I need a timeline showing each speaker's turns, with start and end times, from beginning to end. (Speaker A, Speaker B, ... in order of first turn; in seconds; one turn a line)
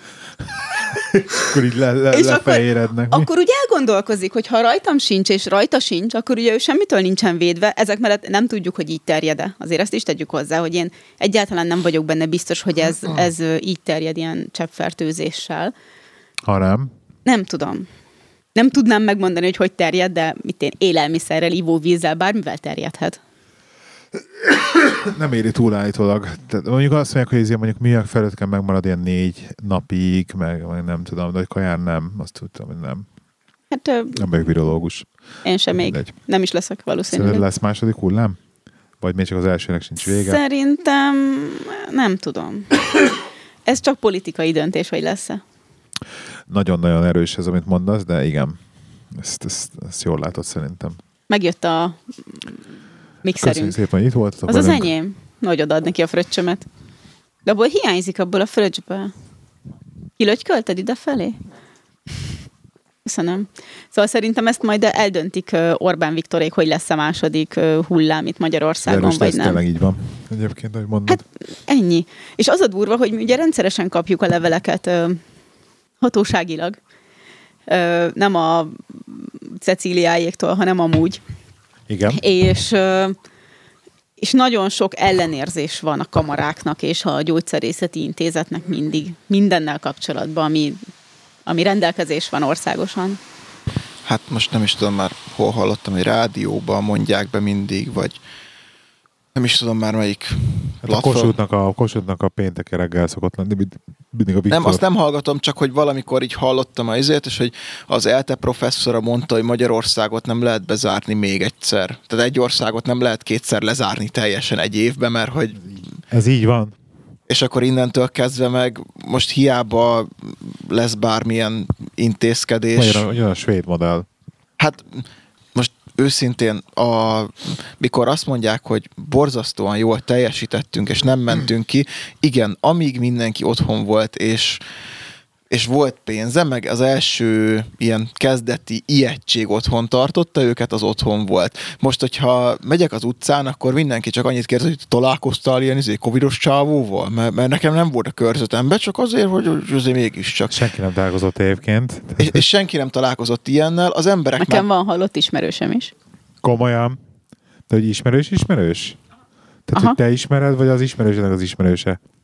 Speaker A: 0.9-3.3
Speaker B: 2.1-15.7
Speaker A: 16.4-16.9
Speaker B: 17.2-17.9
Speaker B: 18.5-23.2
Speaker A: 24.5-33.0
Speaker B: 33.7-34.2
Speaker A: 34.1-35.1
Speaker B: 35.4-37.5
Speaker A: 35.8-36.1
Speaker A: 37.1-38.4
Speaker A: 39.0-40.4
Speaker B: 40.0-42.8
Speaker B: 43.6-45.4
Speaker A: 46.5-48.6
Speaker A: 49.1-51.0
Speaker B: 51.3-52.5
Speaker B: 53.2-53.8
Speaker A: 53.4-54.9
Speaker B: 54.5-56.6
Speaker B: 57.5-59.1
Speaker B: 60.2-61.4
Speaker B: 63.0-69.6
Speaker A: 68.8-71.2
Speaker B: 71.1-75.2
Speaker B: 76.0-76.8
Speaker B: 77.7-81.2
Speaker A: 81.9-82.2
Speaker B: 82.1-83.2
Speaker B: 84.2-90.8
Speaker B: 91.5-93.2
Speaker C: 94.0-98.2
Speaker C: 99.3-101.3
Speaker A: 100.8-104.8
Speaker C: 104.5-115.8
Speaker A: 116.1-116.7
Speaker C: 117.3-123.0
Speaker A: 122.7-124.1
Speaker C: 124.6-134.6
Speaker C: 135.5-150.6
Speaker A: 150.5-152.4
Speaker C: 152.2-154.7
Speaker B: 154.4-155.9
Speaker A: 156.4-157.0
Speaker A: 157.7-159.0
Speaker A: 159.7-162.0